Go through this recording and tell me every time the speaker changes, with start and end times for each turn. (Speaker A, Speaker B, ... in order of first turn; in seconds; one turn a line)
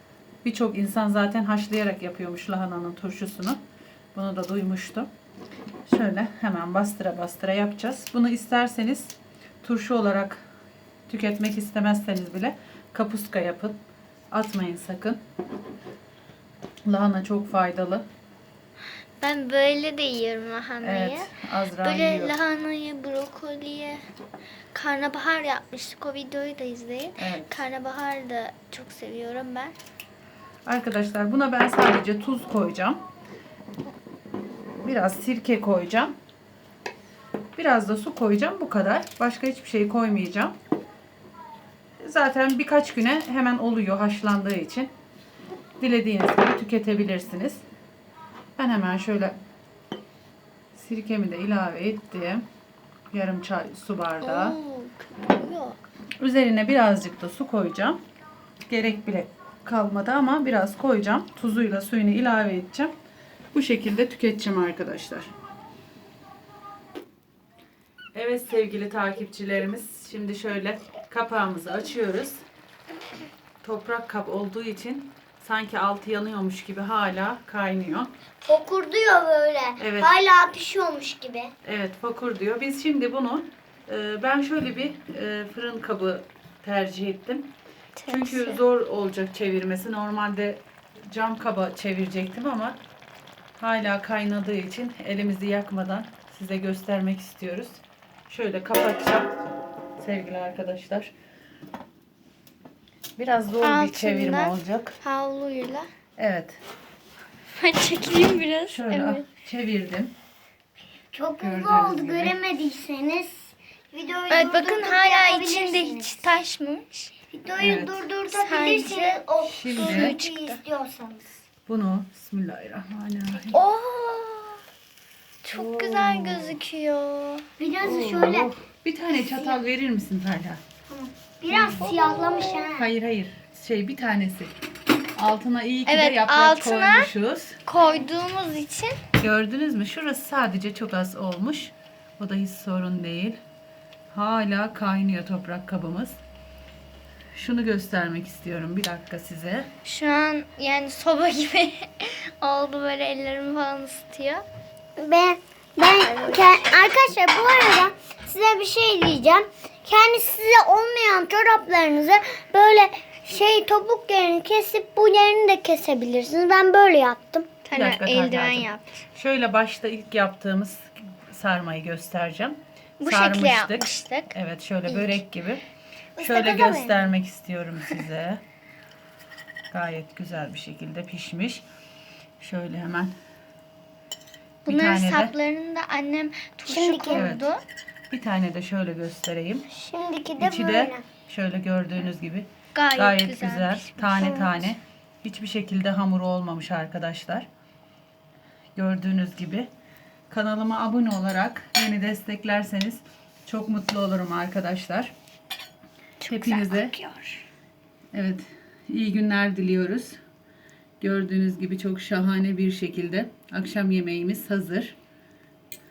Speaker A: 0.4-3.6
Speaker A: 4.2-5.1
Speaker A: 5.9-10.4
Speaker A: 11.1-13.8
Speaker A: 14.3-15.2
Speaker A: 16.9-18.1
Speaker B: 19.2-24.0
Speaker A: 20.8-22.4
Speaker B: 24.7-29.8
Speaker A: 27.2-27.7
Speaker A: 30.7-33.0
Speaker A: 34.8-36.1
Speaker A: 37.6-40.5
Speaker A: 42.0-44.9
Speaker A: 45.8-47.6
Speaker A: 48.6-49.4
Speaker A: 50.7-52.5
Speaker A: 53.1-54.6
Speaker B: 54.2-55.8
Speaker A: 56.2-58.0
Speaker A: 58.7-62.9
Speaker A: 63.5-65.3
Speaker A: 68.2-72.4
Speaker A: 73.6-78.1
Speaker C: 78.4-81.5
Speaker A: 79.8-80.1
Speaker A: 81.6-87.5
Speaker B: 88.0-88.6
Speaker A: 88.1-92.8
Speaker A: 93.6-99.4
Speaker A: 100.0-101.1
Speaker A: 103.2-105.0
Speaker B: 103.6-105.9
Speaker A: 106.2-106.6
Speaker B: 107.5-109.2
Speaker A: 108.7-110.1
Speaker C: 111.1-116.2
Speaker A: 111.4-112.4
Speaker B: 114.3-117.1
Speaker C: 117.3-121.2
Speaker A: 117.6-118.1
Speaker B: 118.3-120.6
Speaker A: 119.4-120.2
Speaker A: 121.7-123.6
Speaker B: 123.5-124.6
Speaker B: 125.4-127.5
Speaker A: 125.5-126.6
Speaker C: 127.6-128.5
Speaker A: 127.8-130.6
Speaker C: 130.9-132.8
Speaker A: 131.5-131.8
Speaker B: 131.5-132.7
Speaker A: 132.8-134.6
Speaker A: 135.2-137.6
Speaker B: 135.9-137.1
Speaker B: 137.7-139.0
Speaker A: 139.2-143.4
Speaker A: 144.1-146.2
Speaker A: 147.3-149.7
Speaker B: 149.8-154.4
Speaker C: 155.0-167.5
Speaker B: 155.8-157.0
Speaker B: 167.7-169.0
Speaker A: 167.7-175.6
Speaker B: 173.0-174.3
Speaker B: 174.9-175.2
Speaker C: 176.2-177.1
Speaker A: 176.2-178.4
Speaker A: 179.7-181.7
Speaker A: 182.4-183.1
Speaker B: 184.7-187.6
Speaker A: 184.7-185.3
Speaker C: 186.7-187.3
Speaker A: 187.1-187.5
Speaker A: 188.1-189.7
Speaker C: 189.7-191.0
Speaker A: 190.4-197.5
Speaker B: 192.7-194.6
Speaker A: 198.8-199.7
Speaker A: 200.3-205.1
Speaker B: 206.2-207.4
Speaker A: 206.3-206.9
Speaker A: 208.1-210.2
Speaker A: 211.0-214.9